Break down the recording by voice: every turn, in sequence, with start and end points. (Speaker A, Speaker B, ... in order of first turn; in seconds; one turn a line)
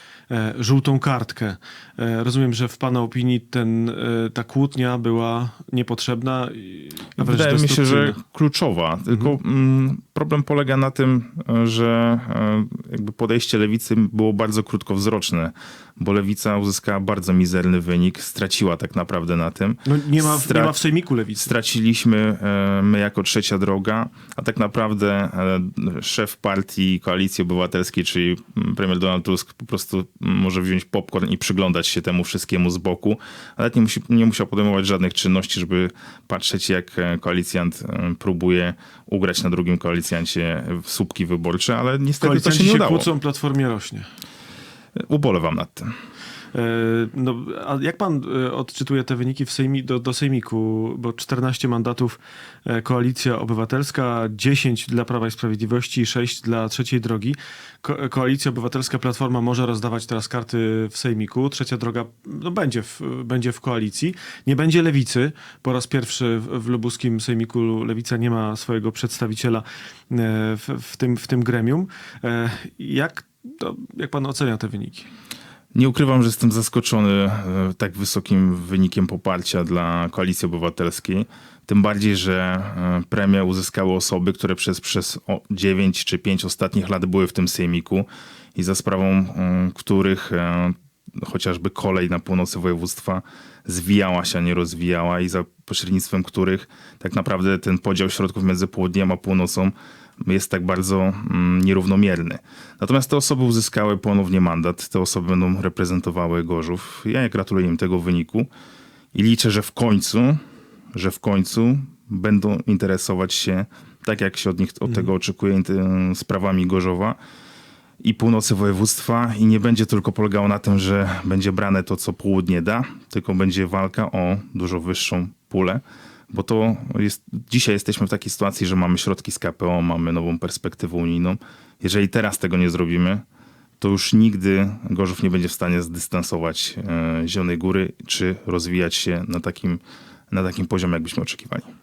Speaker A: 0.3-8.2
Speaker B: 7.2-20.8
Speaker A: 19.8-21.5
Speaker B: 21.4-43.1
Speaker A: 42.2-44.1
Speaker B: 45.0-45.9
Speaker A: 46.5-75.1
Speaker B: 75.7-108.5
Speaker B: 109.1-110.4
Speaker B: 110.9-117.2
Speaker B: 118.0-133.2
Speaker B: 133.8-141.7